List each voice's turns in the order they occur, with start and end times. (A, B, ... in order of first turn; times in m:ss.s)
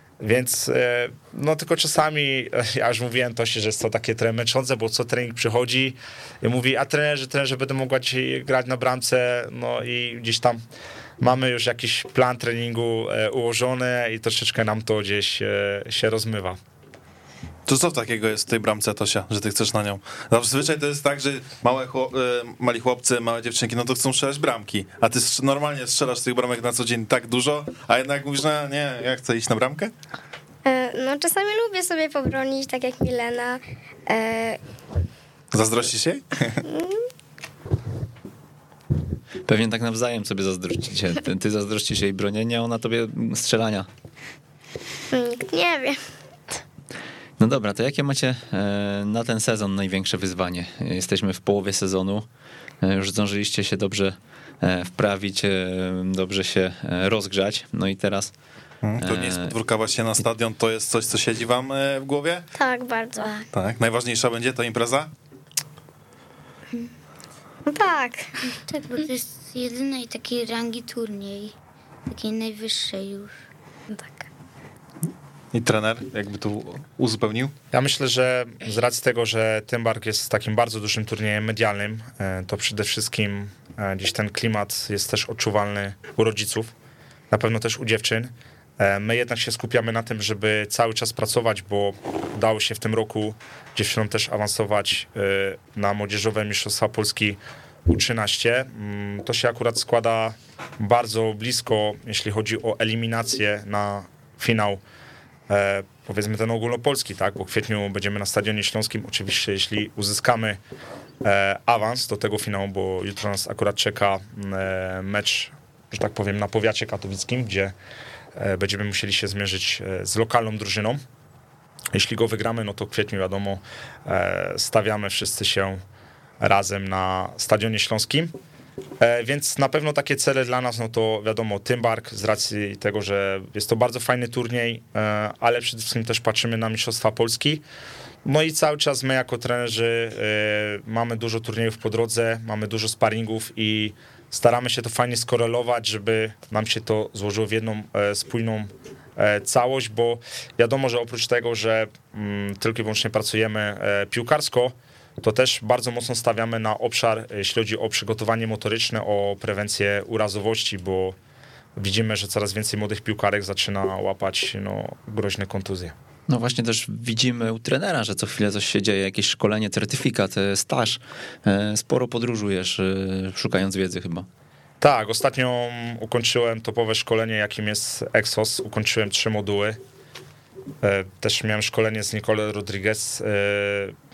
0:00.2-0:10.6 A
0:11.2-0:16.6 A
0:17.7-0:29.9 B
0:30.6-0:34.6 C
0:35.5-0:36.6 B
0:36.6-0:37.0 C
0:39.5-0:43.9 D
0:45.1-0:46.0 C
0:47.4-0:52.3 D
0:52.8-0:58.3 D
0:58.8-1:02.5 B
0:59.0-0:59.5 D
1:02.6-1:03.4 C
1:03.5-1:05.1 B
1:07.7-1:08.3 C
1:08.7-1:11.6 E
1:12.1-1:13.4 E
1:13.9-1:14.2 C
1:15.5-1:17.5 B
1:17.7-1:26.7 A
1:27.3-1:44.8 A
1:45.5-1:50.6 A
1:51.2-1:57.8 A
1:58.4-2:01.0 A
2:01.9-2:05.8 A
2:06.4-2:08.3 A
2:09.0-2:17.6 A
2:18.2-2:41.2 A
2:41.8-2:45.9 A
2:46.3-2:54.3 D
2:54.8-2:59.8 A
3:00.8-3:04.0 A